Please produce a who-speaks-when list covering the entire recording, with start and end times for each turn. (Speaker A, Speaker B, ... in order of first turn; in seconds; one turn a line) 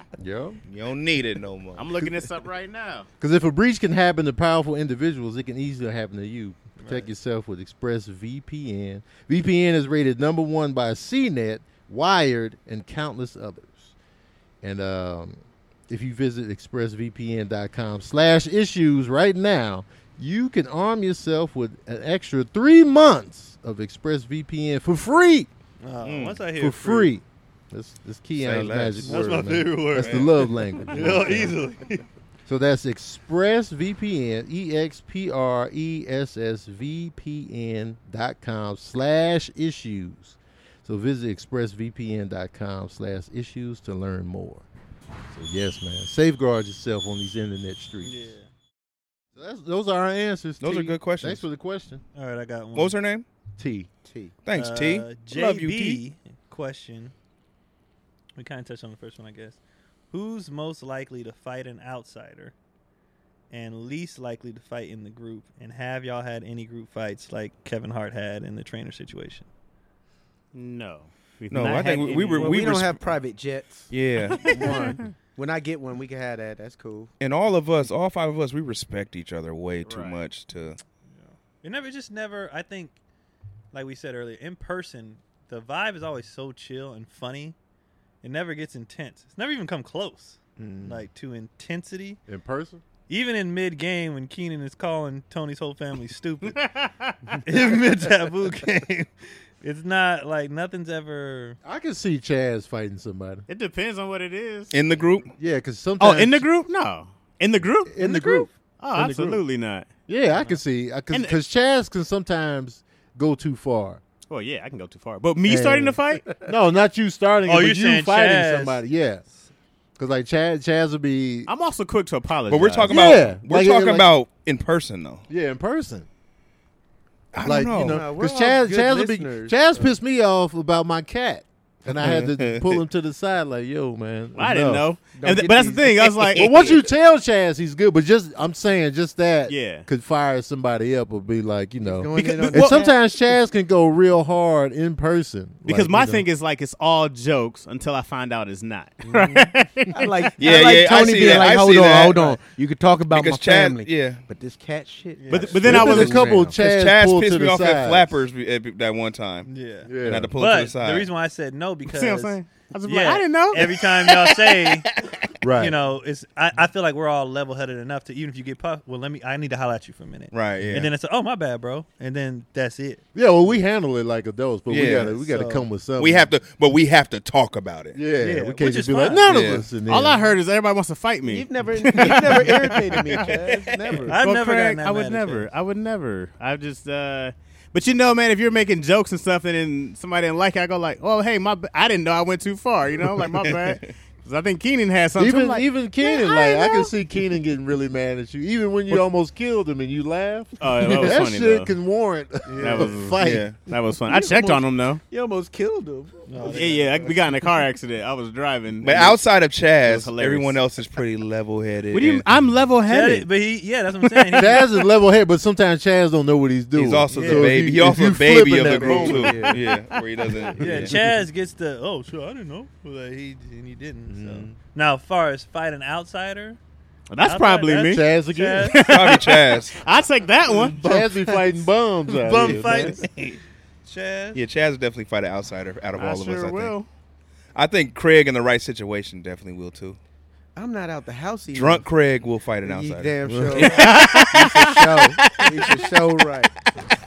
Speaker A: 0.2-0.6
Speaker B: 0.7-1.9
Speaker C: 1.8-3.1
Speaker A: 3.2-13.9
Speaker D: 6.8-7.1
Speaker A: 14.6-25.5
Speaker D: 25.8-27.1
Speaker B: 26.0-26.4
Speaker A: 26.5-31.6
Speaker B: 28.3-30.3
Speaker D: 29.0-32.0
Speaker A: 32.5-44.6
Speaker A: 45.3-48.2
Speaker D: 48.0-48.5
Speaker A: 49.3-52.0
Speaker B: 50.6-51.4
Speaker D: 52.1-53.0
Speaker B: 52.7-53.2
Speaker A: 53.6-53.9
Speaker E: 54.0-54.3
Speaker B: 54.4-56.0
Speaker D: 54.5-57.1
Speaker D: 58.4-59.6
Speaker D: 60.1-62.5
Speaker D: 63.5-69.5
Speaker C: 70.5-72.7
Speaker B: 71.5-73.1
Speaker E: 72.4-77.1
Speaker B: 73.9-74.7
Speaker C: 74.5-74.9
Speaker B: 77.2-80.8
Speaker C: 79.8-80.2
Speaker D: 81.1-83.0
Speaker D: 83.7-87.5
Speaker D: 88.2-92.2
Speaker A: 90.6-91.0
Speaker A: 92.3-92.8
Speaker D: 93.1-96.6
Speaker C: 96.5-97.2
Speaker D: 97.4-101.6
Speaker A: 101.6-103.4
Speaker C: 103.5-104.8
Speaker B: 104.7-105.3
Speaker A: 105.4-106.5
Speaker C: 106.0-109.9
Speaker A: 107.9-109.4
Speaker D: 108.0-108.4
Speaker A: 110.1-114.0
Speaker C: 111.1-111.4
Speaker C: 114.3-116.3
Speaker A: 115.5-119.2
Speaker D: 117.5-118.8
Speaker A: 120.0-121.5
Speaker C: 121.5-123.1
Speaker B: 122.5-125.2
Speaker A: 122.9-124.1
Speaker A: 125.3-126.1
Speaker B: 127.3-128.0
Speaker A: 127.4-134.8
Speaker E: 127.7-129.9
Speaker B: 131.9-132.8
Speaker C: 134.3-136.7
Speaker E: 135.2-136.2
Speaker A: 136.3-146.2
Speaker C: 139.5-139.9
Speaker E: 141.8-143.0
Speaker C: 142.2-142.8
Speaker C: 145.7-150.7
Speaker A: 149.1-149.5
Speaker E: 149.9-156.6
Speaker B: 150.4-152.2
Speaker D: 152.1-152.4
Speaker B: 153.1-154.2
Speaker D: 155.2-155.6
Speaker C: 155.3-156.3
Speaker A: 155.6-158.2
Speaker B: 156.5-161.1
Speaker D: 159.5-164.9
Speaker A: 159.8-160.3
Speaker C: 161.8-163.9
Speaker A: 165.4-165.8
Speaker D: 165.5-173.0
Speaker B: 170.3-170.9
Speaker A: 173.1-176.3
Speaker B: 174.7-175.1
Speaker D: 174.8-175.7
Speaker B: 176.0-178.0
Speaker A: 177.9-180.2
Speaker D: 178.2-179.3
Speaker B: 179.3-179.7
Speaker C: 179.9-183.3
Speaker E: 181.3-184.2
Speaker B: 183.1-184.0
Speaker D: 184.1-185.5
Speaker C: 184.1-196.9
Speaker B: 193.0-193.9
Speaker A: 195.2-203.5
Speaker C: 200.6-201.7
Speaker D: 202.5-203.1
Speaker C: 202.6-205.0
Speaker B: 203.2-203.6
Speaker E: 204.0-207.2
Speaker D: 206.3-207.1
Speaker C: 206.4-209.2
Speaker B: 208.8-212.2
Speaker C: 209.8-210.6
Speaker C: 211.9-213.3
Speaker D: 212.8-214.8
Speaker C: 214.0-214.4
Speaker A: 214.3-219.6
Speaker B: 216.7-221.0
Speaker D: 217.1-217.6
Speaker E: 218.6-219.6
Speaker C: 219.9-220.4
Speaker D: 220.6-226.6
Speaker A: 220.6-221.0
Speaker A: 224.1-224.5
Speaker C: 227.1-228.1
Speaker D: 227.2-229.2
Speaker A: 227.9-228.8
Speaker C: 228.6-231.4
Speaker B: 228.8-229.8
Speaker A: 230.6-233.0
Speaker D: 232.1-234.4
Speaker B: 233.0-233.3
Speaker B: 234.3-236.7
Speaker C: 235.9-236.9
Speaker B: 237.5-240.0
Speaker E: 240.6-241.9
Speaker B: 241.5-243.2
Speaker E: 242.6-246.6
Speaker A: 243.3-243.8
Speaker C: 243.6-245.8